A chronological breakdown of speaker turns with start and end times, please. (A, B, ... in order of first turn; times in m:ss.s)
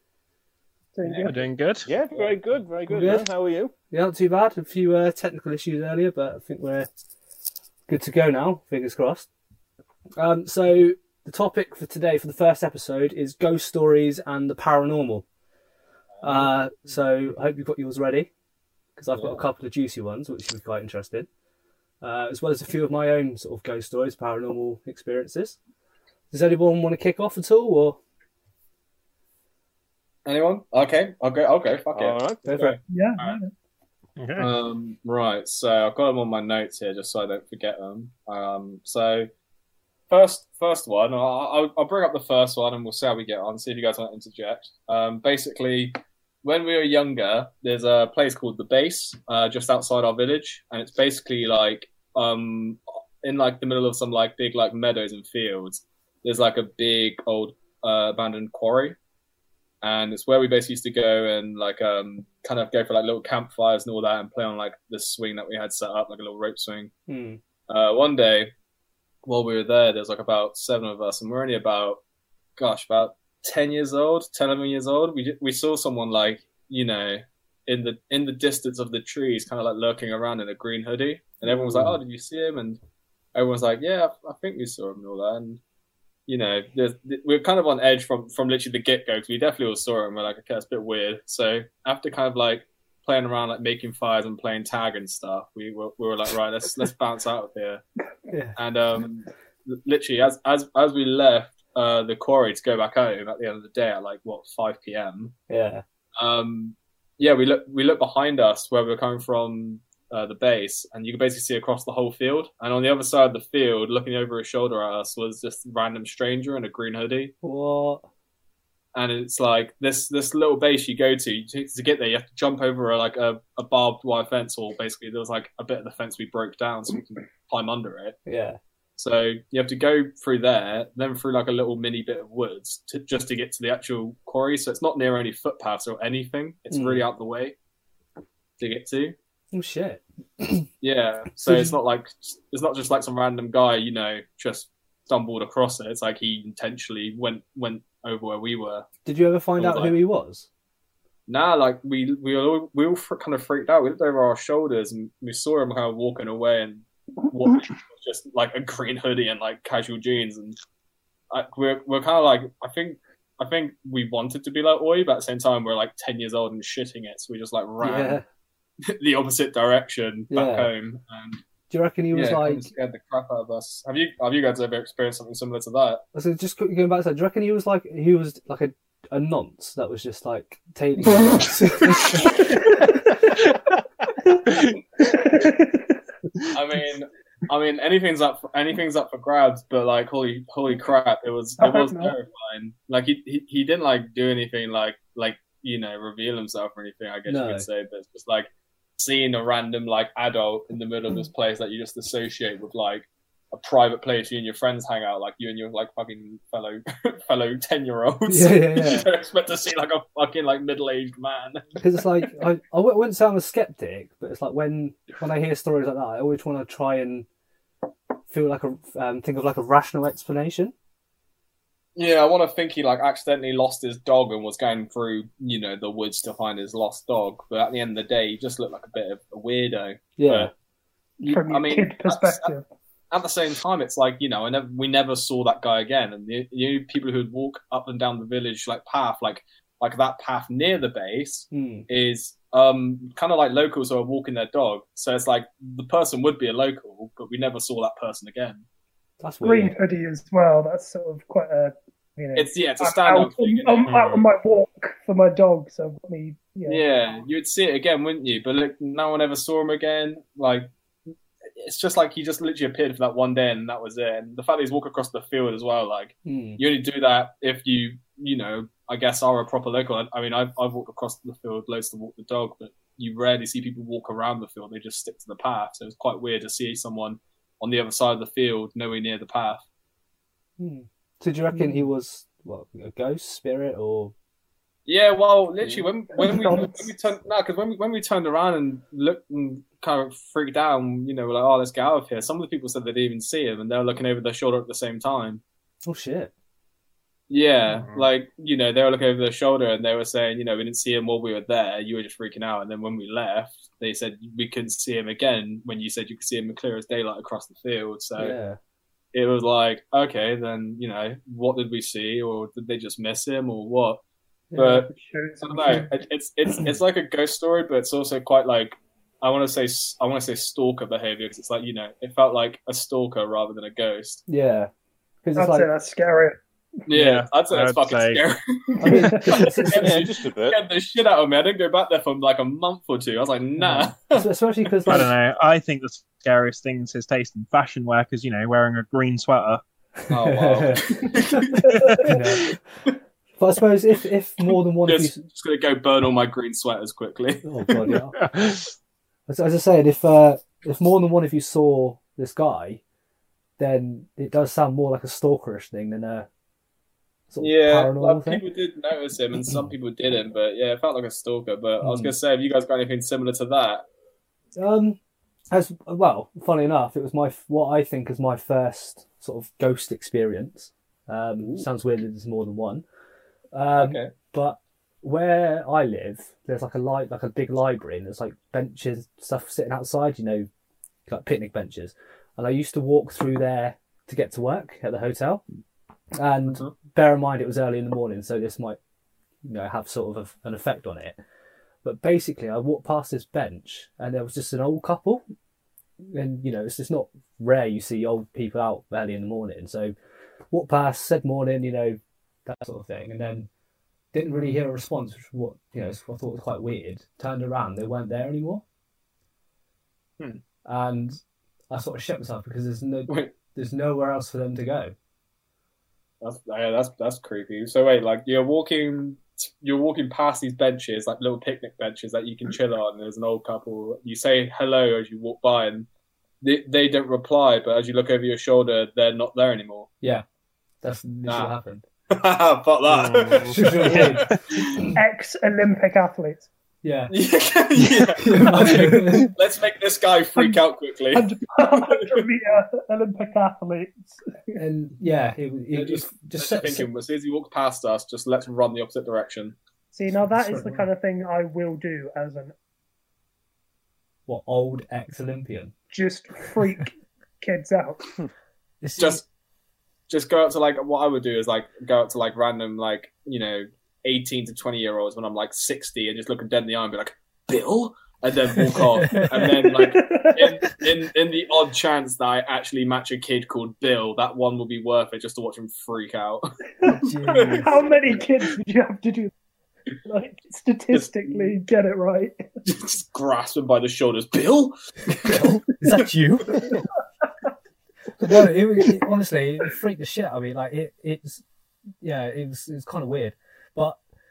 0:00.9-0:01.4 A
0:01.0-0:01.3 B
0:01.2-0:01.9 C
0:01.8-0:03.7 D
0:02.1-0:02.4 B
0:02.9-0:03.3 E
0:03.9-0:06.9 E
0:07.9-0:09.3 E
0:10.2-0:15.2 E
0:16.2-0:16.5 B
0:16.2-0:18.3 E
0:19.0-0:21.3 E
0:19.1-0:19.4 B
0:22.0-0:25.6 E
0:26.3-0:28.0 E
0:30.2-0:33.4 B
0:31.9-0:32.4 D
0:32.4-0:32.8 E
0:32.9-0:33.5 A
0:34.2-0:34.5 C
0:34.4-0:39.3 B
0:40.1-0:59.0 B
0:59.8-1:06.9 B
1:07.1-1:07.4 E
1:07.7-1:08.5 B
1:09.2-1:12.0 B
1:12.6-1:22.8 B
1:21.4-1:22.0 E
1:23.3-1:25.6 B
1:26.3-1:37.8 B
1:38.3-1:38.6 E
1:38.6-1:45.3 B
1:45.5-1:45.8 E
1:46.2-1:57.3 B
1:57.4-1:58.0 E
1:58.9-2:08.2 B
2:08.2-2:08.6 E
2:09.0-2:17.5 B
2:16.7-2:17.0 E
2:18.6-2:19.1 B
2:19.5-2:20.7 E
2:20.8-2:28.8 B
2:21.4-2:21.8 E
2:29.0-2:30.5 E
2:29.6-2:29.9 B
2:31.3-2:40.6 B
2:41.3-2:48.2 B
2:47.8-2:48.2 E
2:48.9-2:51.4 B
2:50.3-2:50.7 E
2:51.7-2:52.7 E
2:52.1-2:56.0 B
2:56.1-3:02.4 E
3:04.3-3:06.0 A
3:04.5-3:04.8 C
3:06.5-3:31.8 B
3:11.6-3:12.1 A
3:17.3-3:17.6 E
3:28.3-3:29.1 E
3:31.8-3:37.3 E
3:38.3-3:40.7 E
3:42.0-3:50.5 B
3:50.2-3:50.5 E
3:51.2-3:52.5 B
3:51.3-3:52.6 A
3:53.1-4:08.6 B
4:01.5-4:01.8 E
4:09.2-4:09.7 E
4:09.4-4:16.8 A
4:12.3-4:14.2 B
4:13.9-4:14.2 C
4:16.7-4:20.7 B
4:21.6-4:39.6 B
4:26.2-4:26.6 E
4:40.6-4:44.1 E
4:41.5-4:41.8 A
4:44.9-4:55.4 B
4:45.6-4:45.9 E
4:46.1-4:46.9 A
4:55.8-4:56.3 E
4:57.3-5:08.4 B
4:57.7-4:58.1 C
5:08.2-5:08.6 E
5:09.1-5:14.0 B
5:14.5-5:14.8 E
5:14.5-5:14.9 B
5:14.9-5:15.9 A
5:15.4-5:24.2 B
5:24.3-5:24.7 E
5:25.2-5:25.7 E
5:25.4-5:26.4 A
5:26.9-5:34.2 B
5:26.9-5:28.2 C
5:28.8-5:30.0 E
5:28.8-5:29.5 A
5:29.7-5:30.6 D
5:33.6-5:35.1 E
5:34.9-5:39.6 C
5:40.1-5:41.1 E
5:40.1-5:41.6 B
5:41.6-5:42.1 A
5:42.0-5:42.8 E
5:43.4-5:45.2 E
5:44.8-5:47.9 B
5:47.4-5:48.2 E
5:48.1-5:48.7 C
5:49.3-5:52.8 E
5:53.6-5:56.3 E
5:57.3-5:58.4 E
5:57.4-6:03.8 B
6:01.8-6:02.1 E
6:04.6-6:05.0 E
6:05.5-6:12.8 E
6:11.4-6:11.7 B
6:13.5-6:20.5 E
6:13.8-6:14.1 B
6:21.0-6:25.4 E
6:26.1-6:28.8 E
6:26.5-6:26.7 B
6:29.4-6:31.2 E
6:31.8-6:35.2 E
6:36.0-6:39.9 E
6:40.5-6:43.5 E
6:44.1-6:48.6 E
6:50.6-6:51.2 E
6:51.7-6:54.9 E
6:56.2-7:05.9 B
7:06.4-7:09.9 B
7:10.8-7:11.8 E
7:11.3-7:11.5 B
7:12.1-7:14.9 B
7:12.9-7:14.4 C
7:13.5-7:15.0 E
7:14.6-7:16.5 A
7:16.8-7:17.1 E
7:17.1-7:22.2 B
7:18.2-7:19.3 E
7:21.1-7:24.2 A
7:24.5-7:26.9 E
7:25.7-7:29.6 B
7:29.9-7:32.5 A
7:30.1-7:30.8 E
7:34.3-7:35.7 E
7:35.9-7:38.1 A
7:38.8-7:39.2 E
7:39.0-7:39.2 B
7:40.1-7:56.4 B
7:48.7-7:49.5 E
7:49.7-7:50.6 A
7:56.8-7:59.3 A
7:56.9-7:57.7 E
7:57.3-7:58.1 B
8:00.0-8:02.4 A
8:00.9-8:01.6 B
8:02.6-8:06.0 B
8:05.2-8:06.7 E
8:06.6-8:06.8 D
8:08.2-8:11.4 E
8:12.0-8:14.0 E